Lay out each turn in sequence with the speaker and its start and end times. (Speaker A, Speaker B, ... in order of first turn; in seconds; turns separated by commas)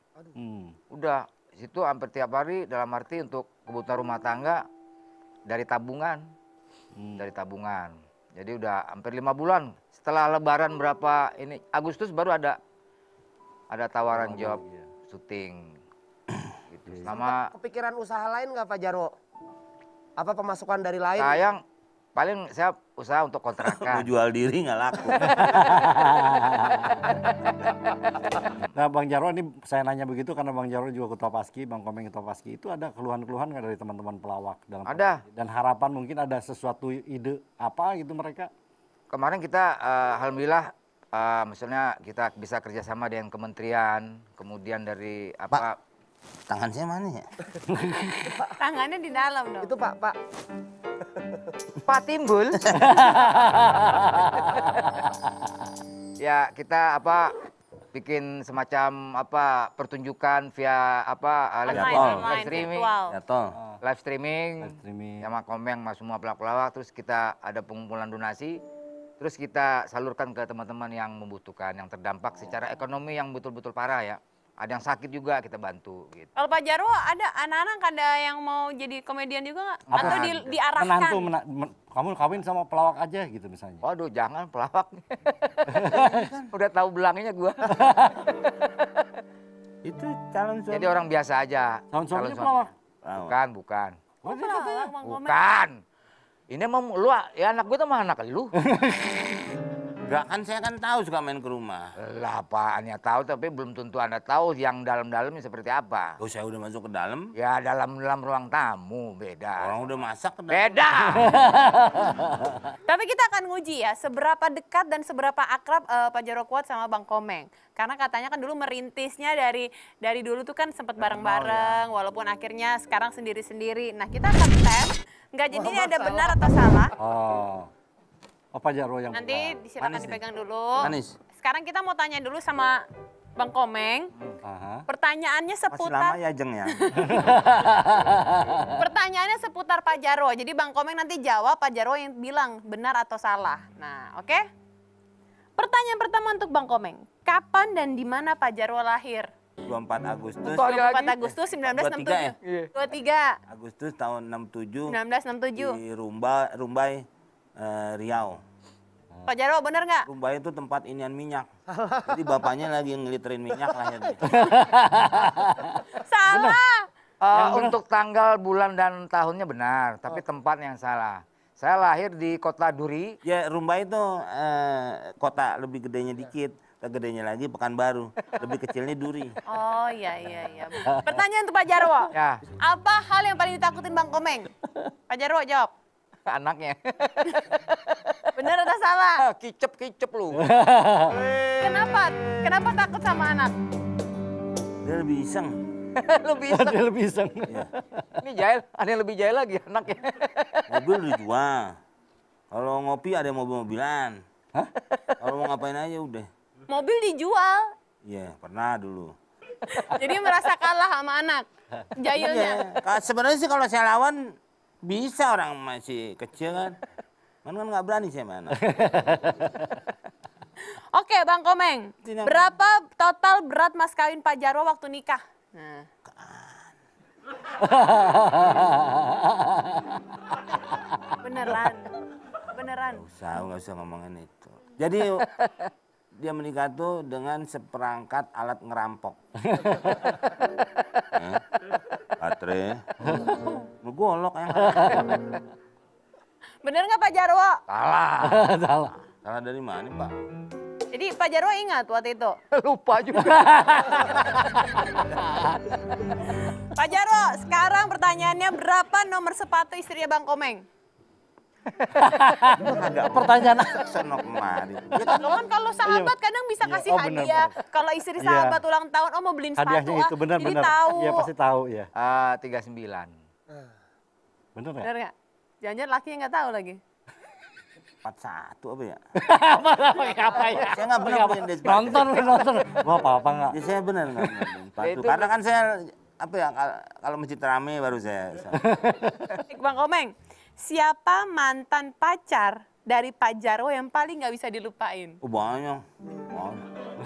Speaker A: 0.3-0.7, Speaker B: 0.9-4.7, Speaker B: 5.5-6.2, Speaker A: 7.0-7.2, Speaker B: 7.2-12.6, Speaker B: 13.7-15.8, Speaker A: 14.1-14.8, Speaker B: 16.7-17.5, Speaker C: 17.1-19.1, Speaker C: 20.2-21.4, Speaker B: 21.2-21.6, Speaker B: 22.2-24.1, Speaker D: 23.6-25.4, Speaker A: 25.2-27.1, Speaker A: 28.8-38.5, Speaker B: 34.9-35.2, Speaker B: 39.1-45.8, Speaker D: 46.5-47.3, Speaker A: 47.8-48.0, Speaker E: 48.2-49.7, Speaker C: 49.6-50.2, Speaker B: 51.9-52.8, Speaker D: 52.6-53.0, Speaker A: 52.8-54.6, Speaker B: 54.5-54.8, Speaker B: 56.2-57.4, Speaker B: 57.9-62.9, Speaker E: 61.7-63.2, Speaker D: 61.7-62.5, Speaker D: 63.1-63.6, Speaker B: 63.8-68.6, Speaker A: 64.6-65.3, Speaker B: 69.2-76.3, Speaker E: 76.4-81.2, Speaker B: 79.9-80.5, Speaker A: 79.9-83.8, Speaker B: 83.8-89.0, Speaker A: 85.7-86.3, Speaker D: 85.9-86.5, Speaker A: 87.7-88.2, Speaker D: 89.8-90.9, Speaker B: 90.7-92.7, Speaker A: 91.9-92.7, Speaker D: 93.0-93.3, Speaker B: 93.3-95.8, Speaker E: 94.2-95.4, Speaker B: 96.5-98.5, Speaker A: 98.6-99.2, Speaker D: 100.1-101.9, Speaker B: 102.0-106.2, Speaker D: 106.2-107.3, Speaker B: 107.3-109.9, Speaker D: 109.6-110.8, Speaker B: 110.5-111.3, Speaker A: 111.2-112.6, Speaker E: 112.9-126.9, Speaker A: 121.0-121.8, Speaker C: 125.5-126.7, Speaker A: 127.0-127.7, Speaker A: 128.5-129.6, Speaker E: 129.1-132.8, Speaker D: 129.8-130.2, Speaker D: 130.8-131.2, Speaker E: 133.4-134.1, Speaker A: 134.4-134.8, Speaker E: 134.9-136.2, Speaker D: 135.7-137.0, Speaker E: 136.7-137.2, Speaker A: 137.1-138.7, Speaker E: 138.8-144.4, Speaker E: 145.6-149.3, Speaker D: 149.7-150.7, Speaker B: 150.4-151.2, Speaker E: 150.5-153.4, Speaker D: 151.5-152.3, Speaker B: 152.4-152.7, Speaker D: 153.5-155.0, Speaker E: 154.9-155.8, Speaker D: 155.6-157.1, Speaker D: 157.6-158.4, Speaker E: 159.3-160.1, Speaker D: 160.1-161.5, Speaker C: 161.8-162.1, Speaker D: 162.1-164.3, Speaker A: 164.3-166.6, Speaker E: 166.0-166.9, Speaker B: 167.2-173.2, Speaker A: 167.3-167.8, Speaker D: 173.2-179.4, Speaker E: 179.5-184.5, Speaker B: 182.1-182.4, Speaker E: 185.1-185.7, Speaker B: 186.3-188.5, Speaker E: 188.4-189.2, Speaker B: 189.2-190.5, Speaker A: 190.3-191.4, Speaker E: 191.5-193.5, Speaker D: 194.8-195.6, Speaker B: 195.9-196.8, Speaker A: 196.5-198.1, Speaker B: 198.2-200.8, Speaker D: 200.7-201.8, Speaker D: 202.5-204.2, Speaker D: 205.2-206.3, Speaker E: 206.7-207.7, Speaker D: 208.1-209.1, Speaker E: 209.7-211.5, Speaker E: 212.0-212.7, Speaker D: 212.1-216.8, Speaker D: 217.4-218.6, Speaker A: 218.6-219.8, Speaker E: 220.9-225.9, Speaker D: 222.0-222.4, Speaker D: 226.1-226.7, Speaker A: 227.6-230.0, Speaker E: 231.2-231.9, Speaker E: 232.5-233.1, Speaker D: 233.0-235.3, Speaker B: 235.3-235.7, Speaker D: 236.2-239.2, Speaker A: 239.4-240.1, Speaker B: 240.8-241.0, Speaker D: 241.1-241.4, Speaker D: 242.2-242.9, Speaker A: 243.0-243.3, Speaker D: 243.8-245.2, Speaker A: 244.6-244.9, Speaker E: 246.6-247.6, Speaker B: 247.7-248.4, Speaker A: 248.2-248.9, Speaker D: 249.2-250.1, Speaker E: 250.9-252.4, Speaker B: 252.5-254.1, Speaker A: 253.2-255.5, Speaker E: 256.3-260.6, Speaker A: 262.0-263.8, Speaker D: 262.6-265.3, Speaker E: 265.0-271.3, Speaker A: 265.9-267.6, Speaker A: 268.2-268.6, Speaker A: 269.6-271.9, Speaker B: 271.9-273.1, Speaker A: 274.6-274.9, Speaker E: 274.8-276.8, Speaker D: 278.0-279.0, Speaker A: 279.2-283.6, Speaker D: 280.6-282.3, Speaker D: 283.5-288.6, Speaker A: 284.2-284.5, Speaker B: 284.8-285.3, Speaker A: 288.5-289.4, Speaker E: 289.5-295.2, Speaker D: 295.2-296.6